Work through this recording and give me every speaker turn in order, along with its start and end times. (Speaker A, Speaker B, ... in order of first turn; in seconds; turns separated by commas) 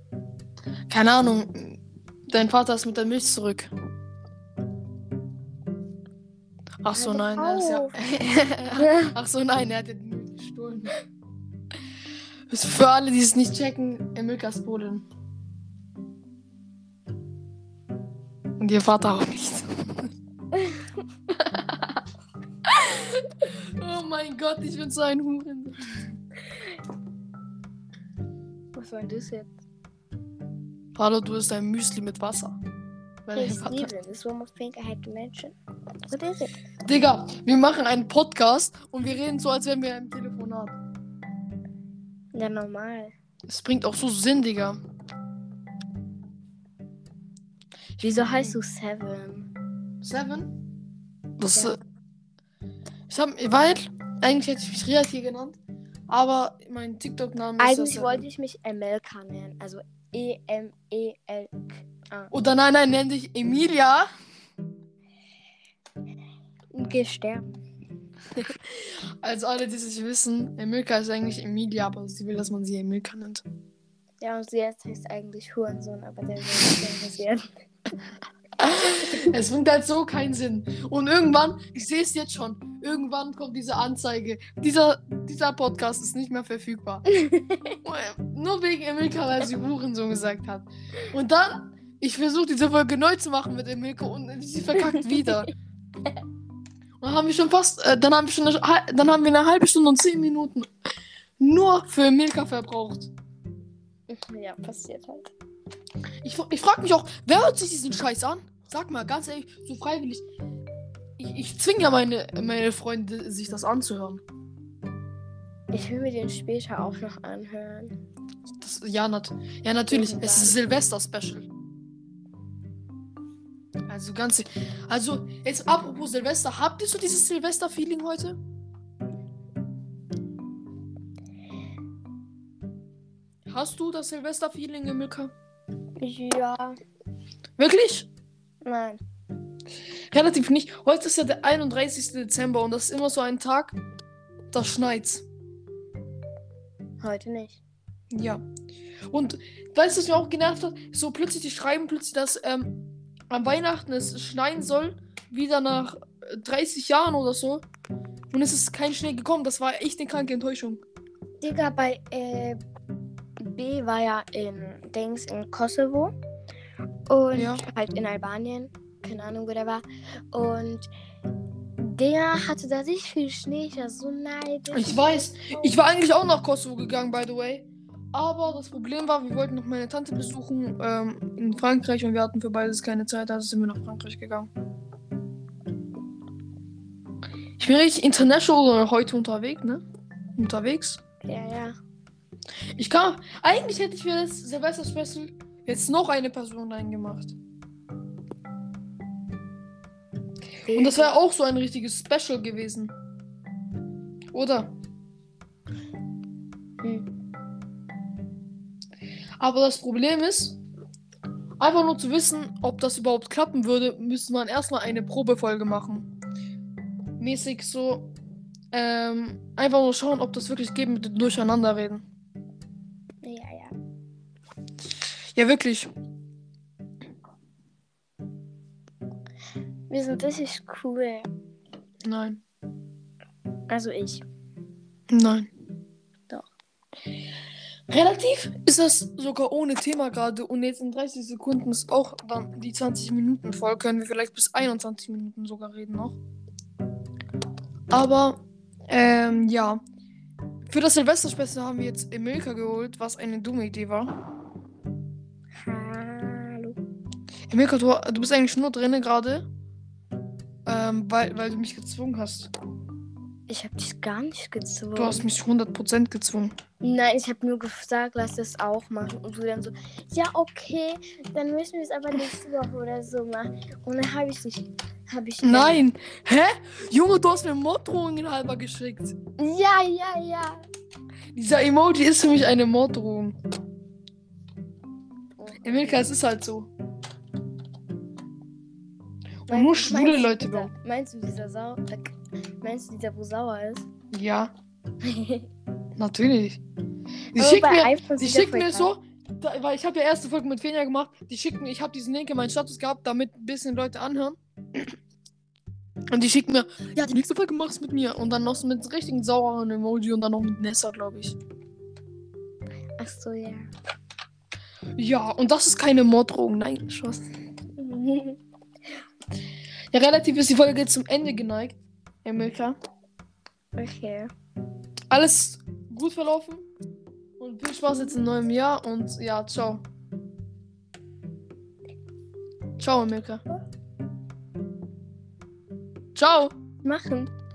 Speaker A: 0.9-3.7, Speaker A: 6.8-10.9, Speaker B: 6.9-8.0, Speaker A: 12.5-15.1, Speaker A: 18.6-20.0, Speaker A: 21.3-22.0, Speaker A: 22.6-26.0, Speaker B: 28.8-29.5, Speaker A: 31.0-32.6, Speaker A: 33.2-33.9, Speaker B: 33.4-35.5, Speaker B: 36.1-36.5, Speaker A: 36.9-40.8, Speaker B: 42.3-43.1, Speaker A: 43.5-44.8, Speaker A: 48.0-48.6, Speaker B: 48.0-49.5, Speaker A: 50.0-50.6, Speaker A: 51.4-51.8, Speaker A: 53.1-55.6, Speaker A: 56.1-58.2, Speaker B: 57.6-62.3, Speaker A: 62.3-64.1, Speaker B: 66.7-67.6, Speaker A: 68.4-73.4, Speaker B: 74.2-77.5, Speaker A: 78.6-87.0, Speaker B: 87.1-87.8, Speaker A: 87.8-95.5, Speaker B: 94.8-95.3, Speaker A: 97.0-100.7, Speaker A: 101.4-103.1, Speaker B: 104.1-105.3, Speaker A: 106.2-110.2, Speaker A: 111.2-114.2, Speaker B: 115.7-118.0, Speaker A: 118.6-121.5, Speaker B: 119.9-120.5, Speaker A: 123.9-128.4, Speaker A: 133.5-135.3, Speaker B: 136.0-136.8, Speaker A: 137.6-138.1, Speaker B: 138.6-139.0, Speaker A: 140.1-143.8, Speaker A: 144.5-145.2, Speaker B: 147.0-147.6, Speaker A: 148.1-148.4, Speaker A: 149.1-152.8, Speaker A: 153.3-157.7, Speaker A: 158.3-160.8, Speaker B: 161.4-162.6, Speaker B: 163.4-166.1, Speaker B: 167.1-170.9, Speaker A: 167.3-167.7, Speaker B: 171.8-175.2, Speaker A: 174.7-184.5, Speaker A: 187.6-189.8, Speaker A: 190.3-191.0, Speaker B: 191.2-191.8, Speaker A: 192.8-197.3, Speaker B: 200.6-201.1, Speaker A: 200.7-202.9, Speaker A: 204.3-204.7, Speaker A: 209.4-210.6, Speaker A: 211.6-216.1, Speaker A: 217.2-218.1, Speaker A: 218.7-222.0, Speaker B: 223.2-223.8, Speaker A: 225.3-225.9, Speaker B: 229.9-231.3, Speaker A: 232.0-232.4, Speaker B: 233.7-234.2, Speaker A: 235.1-235.5, Speaker A: 237.9-246.2, Speaker A: 247.9-249.8, Speaker A: 250.7-254.1, Speaker B: 255.6-256.8, Speaker A: 257.5-259.5, Speaker A: 260.7-262.5, Speaker B: 263.5-265.2, Speaker A: 264.9-266.6, Speaker B: 266.8-275.8, Speaker A: 275.4-279.2, Speaker B: 279.4-280.6, Speaker A: 281.3-283.4, Speaker B: 285.4-286.1, Speaker A: 285.6-286.7, Speaker A: 289.5-290.7, Speaker B: 289.5-293.9, Speaker A: 294.1-294.5, Speaker B: 295.0-295.5, Speaker A: 296.0-296.6, Speaker A: 297.3-304.9, Speaker B: 297.4-298.9, Speaker A: 306.1-311.4, Speaker B: 313.0-313.7, Speaker A: 315.0-317.2, Speaker B: 317.8-318.4, Speaker A: 319.9-322.8, Speaker B: 323.8-324.3, Speaker A: 325.1-326.6, Speaker A: 327.4-329.8, Speaker A: 332.8-333.4, Speaker A: 336.1-336.5, Speaker B: 336.8-337.3